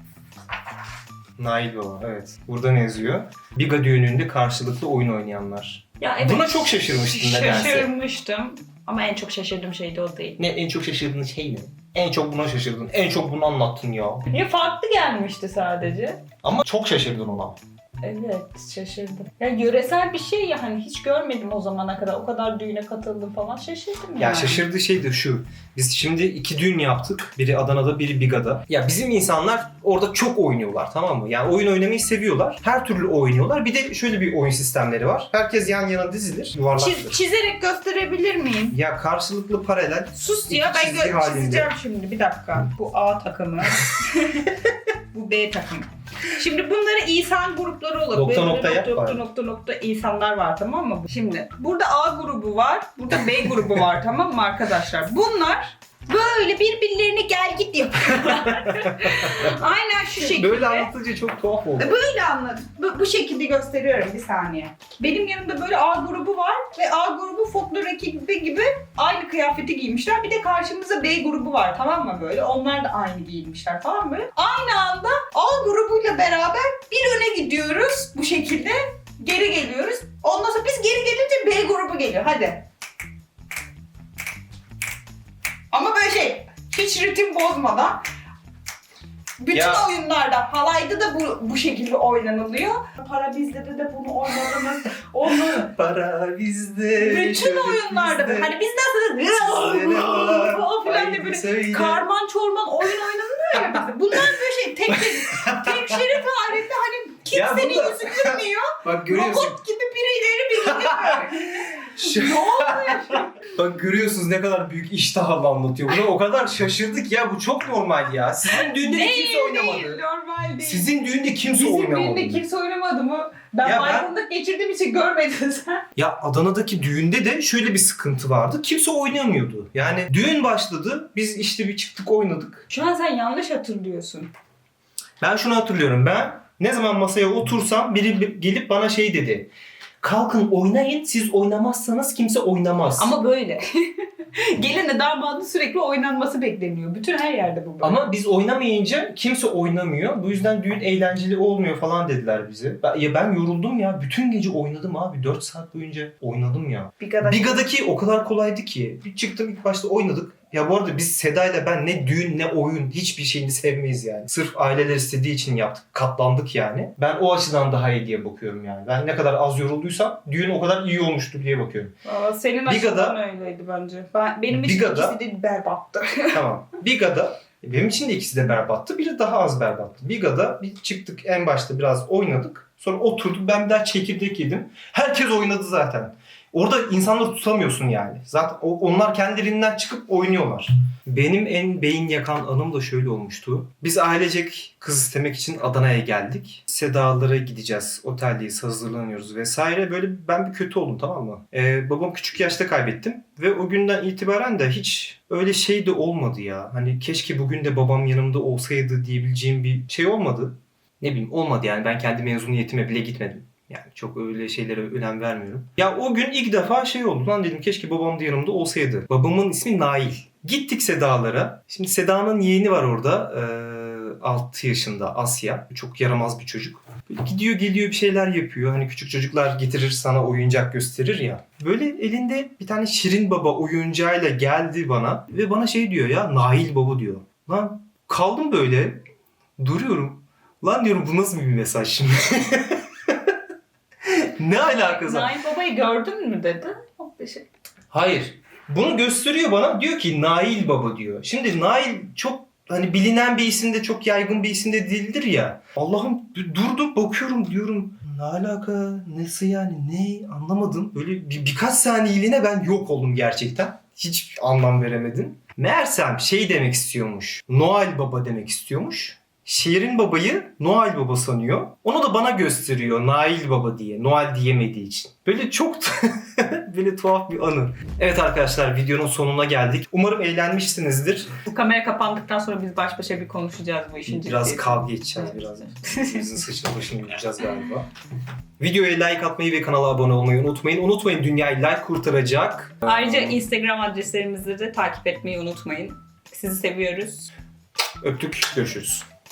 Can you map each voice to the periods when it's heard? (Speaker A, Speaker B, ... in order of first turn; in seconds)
Speaker A: 1.4-7.9, 10.4-14.3, 16.4-17.6, 24.2-37.2, 38.7-41.7, 48.1-49.2, 58.3-59.5, 60.2-62.0, 89.5-89.9, 95.4-98.5, 99.3-102.1, 103.5-104.2, 104.9-106.1, 107.3-109.6, 110.6-120.0, 120.6-122.4, 123.6-124.1, 126.0-132.7, 135.2-139.5, 140.0-143.2, 147.8-171.9, 172.7-173.2, 174.5-175.2, 176.3-239.0, 239.6-243.3, 244.0-245.3, 247.9-281.3, 284.1-287.9, 288.6-293.2, 298.0-299.1
Speaker B: 6.0-10.4, 14.3-16.2, 18.0-24.6, 36.8-38.8, 40.1-44.6, 45.1-60.9, 61.8-82.7, 85.7-88.0, 89.4-95.7, 97.0-113.3, 118.5-120.9, 121.5-125.8, 132.7-134.3, 143.0-148.1, 157.0-157.7, 172.1-176.4, 244.6-247.5, 281.5-286.4, 292.8-297.3